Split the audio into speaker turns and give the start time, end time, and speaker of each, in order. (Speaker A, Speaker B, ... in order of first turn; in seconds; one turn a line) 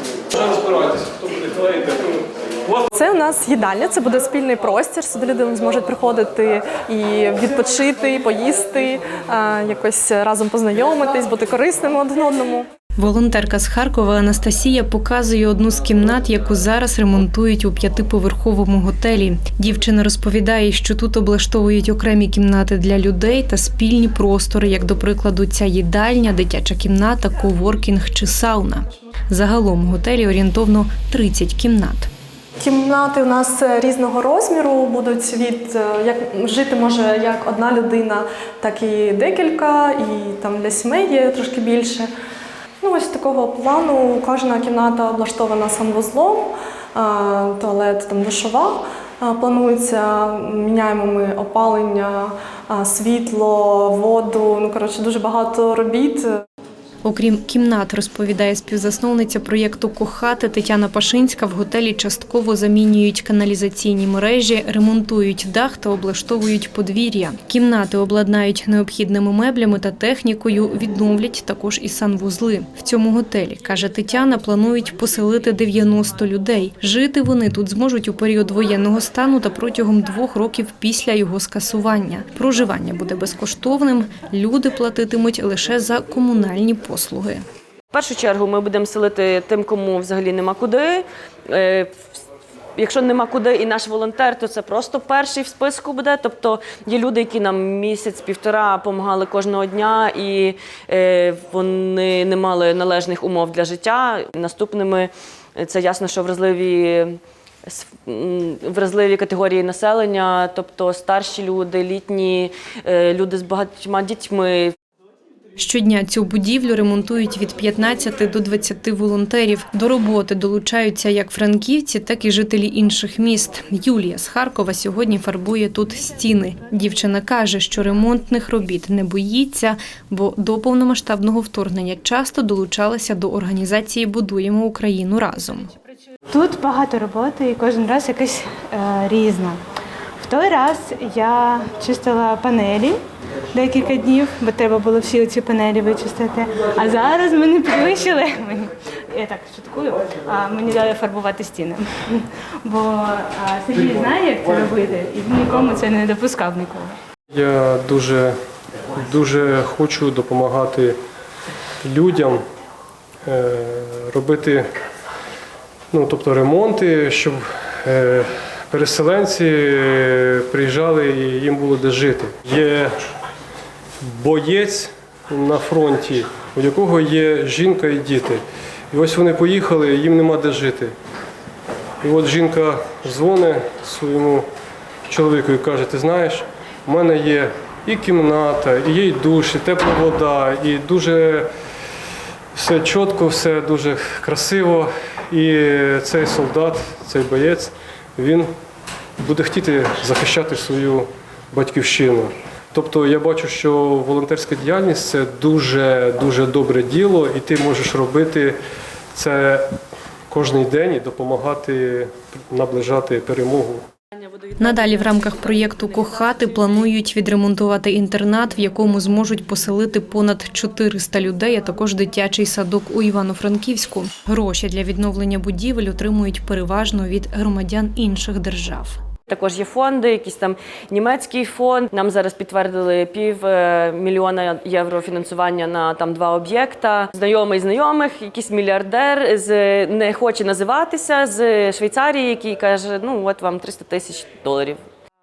Speaker A: 0.3-2.9
Speaker B: 2.9-12.7
Speaker C: 13.0-32.1
Speaker B: 32.6-42.1
Speaker B: 42.8-56.2
Speaker C: 57.0-87.4
Speaker D: 87.9-91.9
Speaker D: 92.8-114.7
Speaker C: 115.6-135.7
Speaker E: 136.3-139.6
Speaker E: 140.2-143.0
Speaker E: 143.5-156.9
Speaker A: 157.3-158.3
Speaker A: 158.9-161.0
Speaker A: 161.8-162.4
Speaker A: 163.2-164.7
Speaker A: 165.9-172.9
Speaker A: 174.0-180.9
Speaker A: 182.0-184.5
Speaker A: 185.1-191.5
Speaker A: 192.5-198.5
Speaker A: 199.2-208.6
Speaker A: 209.1-209.7
Speaker A: 210.3-213.8
Speaker C: 214.6-229.0
Speaker D: 229.3-244.8